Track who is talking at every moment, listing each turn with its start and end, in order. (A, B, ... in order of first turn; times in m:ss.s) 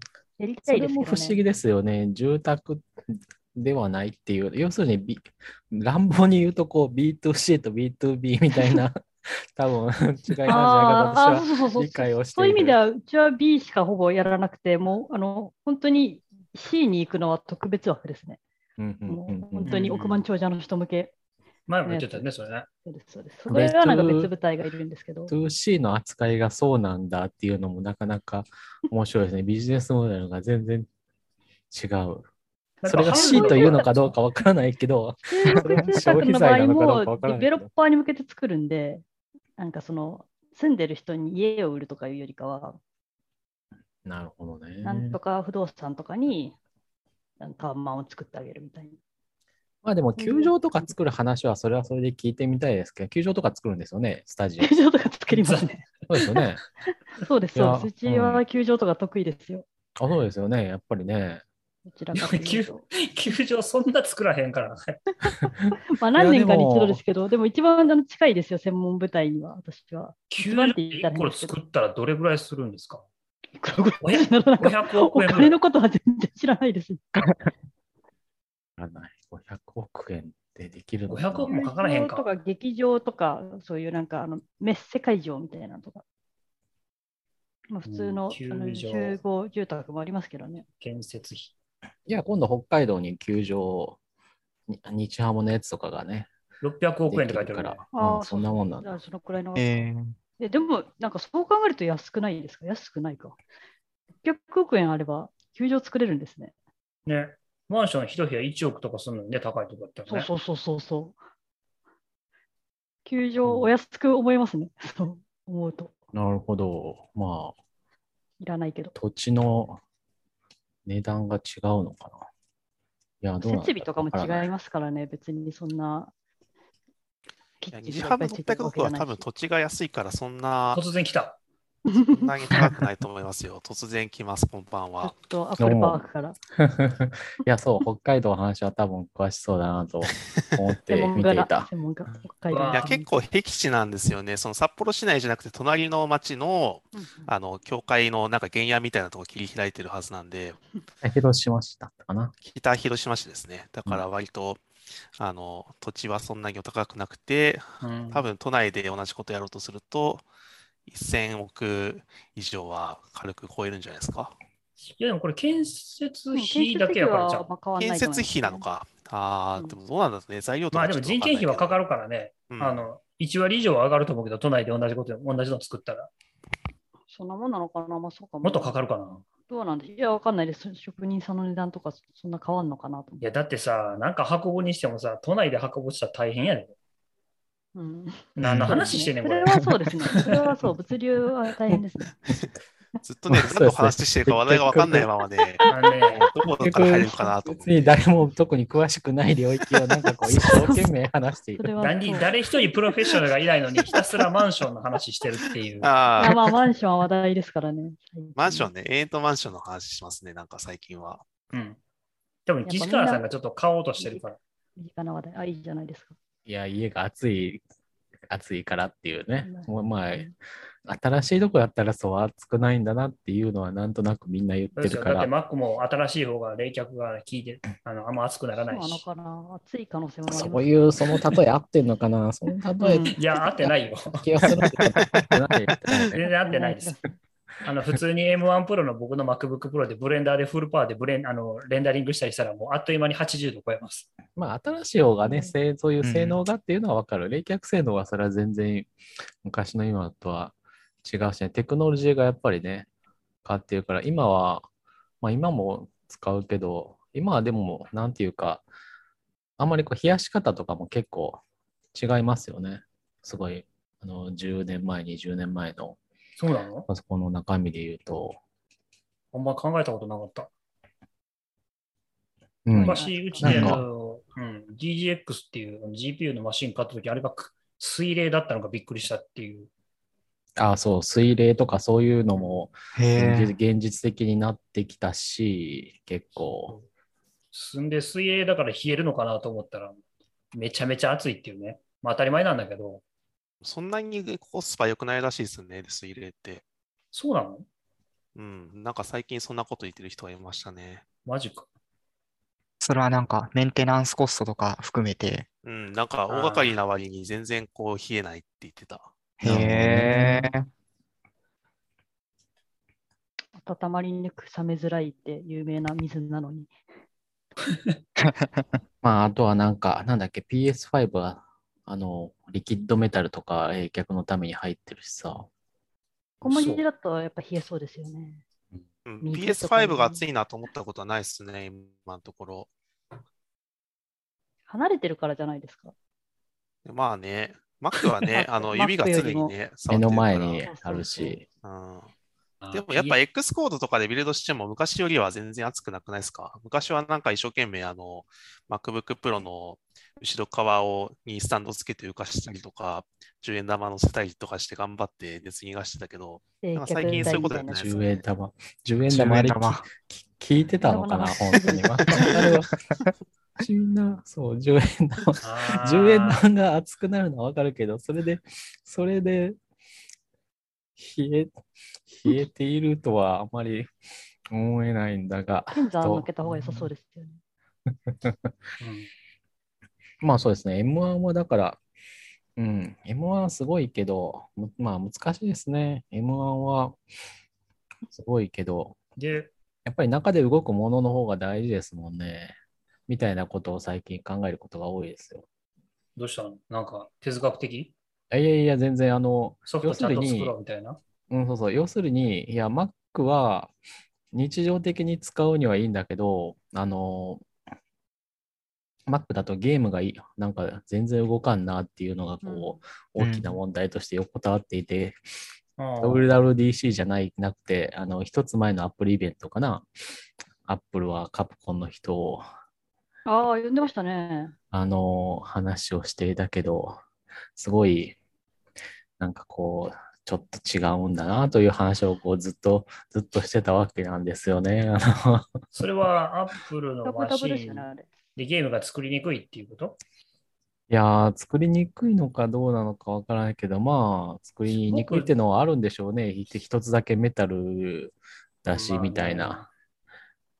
0:00.4-0:01.4 A
0:00.7-0:12.8 B
0:10.4-0:18.4 A
0:18.8-0:19.8 B
0:19.1-0:21.1 A
0:19.6-0:20.3 C
0:21.7-0:22.7 C
0:21.8-0:22.3 A
0:22.8-0:25.3 A
0:23.5-0:24.3 B
0:25.3-0:30.9 B
0:31.7-0:32.3 B
0:32.8-0:34.1 C
0:32.9-0:37.7 B
0:33.1-0:33.9 A
0:35.3-0:39.0 A
0:39.6-0:42.8 A
0:44.0-0:45.2 B
0:44.8-0:46.6 A
0:47.4-0:49.0 A
0:49.8-0:54.7 B
0:50.2-0:50.6 A
0:54.6-0:56.4 A
0:55.3-0:55.7 C
0:56.1-0:56.6 B
0:57.2-0:59.6 A
0:57.6-0:58.4 B
1:00.0-1:01.4 B
1:01.9-1:02.8 A
1:02.2-1:05.1 C
1:05.2-1:11.5 A
1:05.6-1:07.0 B
1:10.3-1:13.1 C
1:13.6-1:17.3 A
1:14.0-1:15.6 C
1:18.8-1:21.5 B
1:21.1-1:22.3 C
1:21.5-1:26.0 A
1:27.7-1:30.7 A
1:27.8-1:29.2 C
1:30.8-1:31.5 C
1:32.1-1:34.0 B
1:34.7-1:36.3 B
1:36.6-1:37.8 C
1:37.1-1:39.0 B
1:37.9-1:39.7 A
1:39.6-1:40.2 D
1:40.4-1:43.4 A
1:44.2-1:46.5 A
1:47.1-1:50.3 C
1:50.1-1:51.2 A
1:53.0-1:55.9 A
1:53.4-1:53.7 B
1:56.1-1:57.6 B
1:58.4-1:59.0 A
1:59.0-1:59.8 B
2:00.9-2:02.3 B
2:03.2-2:04.5 B
2:03.4-2:06.1 A
2:07.6-2:09.2 A
2:07.7-2:10.8 E
2:10.7-2:11.4 C
2:11.9-2:12.7 A
2:12.1-2:15.2 E
2:15.0-2:16.4 A
2:15.6-2:16.0 B
2:16.6-2:21.7 B
2:20.9-2:23.1 A
2:22.5-2:23.0 C
2:22.7-2:30.6 E
2:27.0-2:27.3 A
2:31.0-2:32.3 B
2:32.5-2:34.6 E
2:35.2-2:40.3 E
2:37.8-2:38.3 C
2:40.9-2:44.4 E
2:44.8-2:47.5 C
2:46.3-2:48.6 A
2:47.8-2:51.8 E
2:50.7-2:56.1 C
2:52.5-2:52.9 E
2:57.1-2:58.8 A
2:58.4-2:59.2 C
2:59.4-3:03.2 A
3:03.2-3:06.8 C
3:07.8-3:12.2 A
3:08.4-3:09.6 C
3:08.4-3:08.8 B
3:09.5-3:10.7 B
3:11.7-3:12.4 B
3:13.0-3:15.7 E
3:13.3-3:15.1 B
3:15.7-3:16.3 C
3:16.3-3:18.0 E
3:16.6-3:21.7 B
3:21.6-3:22.3 A
3:21.8-3:26.0 C
3:25.8-3:26.6 E
3:26.2-3:28.7 A
3:28.4-3:31.2 E
3:31.5-3:31.8 C
3:32.5-3:34.4 C
3:32.6-3:33.2 A
3:34.8-3:36.1 A
3:36.5-3:37.6 B
3:38.3-3:40.3 B
3:39.4-3:40.3 A
3:40.8-3:45.3 B
3:44.8-3:49.0 C
3:48.7-3:50.7 A
3:50.3-3:56.2 B
3:52.8-3:53.2 A
3:53.2-3:54.3 C
3:54.4-3:55.3 D
3:56.2-3:57.0 C
3:56.2-3:57.2 A
3:57.6-4:04.1 C
4:04.4-4:08.9 B
4:05.2-4:05.5 A
4:06.0-4:06.4 D
4:09.4-4:12.9 B
4:13.4-4:14.7 B
4:15.2-4:18.6 B
4:19.6-4:21.4 B
4:21.9-4:26.0 B
4:26.4-4:26.9 C
4:26.9-4:28.4 B
4:29.3-4:30.5 C
4:32.7-4:33.8 B
4:32.7-4:33.8 A
4:32.7-4:39.7 C
4:40.6-4:46.8 B
4:43.0-4:43.6 D
4:46.5-4:46.9 C
4:47.5-4:50.0 C
4:50.5-4:53.0 C
4:53.6-4:56.6 E
4:57.1-4:57.7 C
4:58.4-5:01.0 E
5:01.3-5:01.7 C
5:02.8-5:05.5 D
5:05.6-5:09.1 E
5:06.3-5:06.8 C
5:09.4-5:10.7 D
5:09.4-5:10.5 B
5:13.6-5:16.7 A
5:17.7-5:18.0 C
5:18.3-5:18.8 D
5:19.0-5:25.5 B
5:26.4-5:26.8 B
5:26.4-5:28.4 A
5:29.1-5:32.7 E
5:29.2-5:30.2 A
5:34.7-5:35.9 A
5:36.8-5:40.6 E
5:38.3-5:39.5 A
5:39.9-5:41.4 B
5:40.6-5:41.4 A
5:41.6-5:42.1 E
5:42.6-5:43.2 C
5:42.7-5:57.9 E
5:56.6-5:58.2 A
5:57.1-6:02.7 B
5:59.1-5:59.9 D
6:00.8-6:02.4 A
6:03.6-6:09.6 B
6:05.4-6:06.4 C
6:11.0-6:11.6 B
6:12.1-6:13.9 B
6:14.5-6:16.9 B
6:15.7-6:17.4 A
6:18.1-6:18.5 B
6:18.8-6:19.1 C
6:20.2-6:21.8 B
6:22.6-6:27.0 B
6:28.1-6:29.0 B
6:29.2-6:29.5 C
6:29.8-6:32.6 B
6:33.1-6:35.5 B
6:36.2-6:37.9 C
6:38.3-6:40.6 B
6:39.7-6:41.0 C
6:41.3-6:43.7 B
6:44.3-6:47.4 B
6:49.1-6:55.2 B
6:52.4-6:52.8 A
6:53.2-6:53.6 D
6:55.8-6:56.3 C
6:56.0-6:59.9 B
7:00.6-7:02.4 B
7:03.3-7:04.5 A
7:04.7-7:07.0 B
7:07.6-7:08.2 B
7:09.2-7:15.6 B
7:15.7-7:20.0 C
7:17.0-7:18.1 A
7:20.9-7:29.7 B
7:24.8-7:25.3 C
7:28.7-7:29.7 C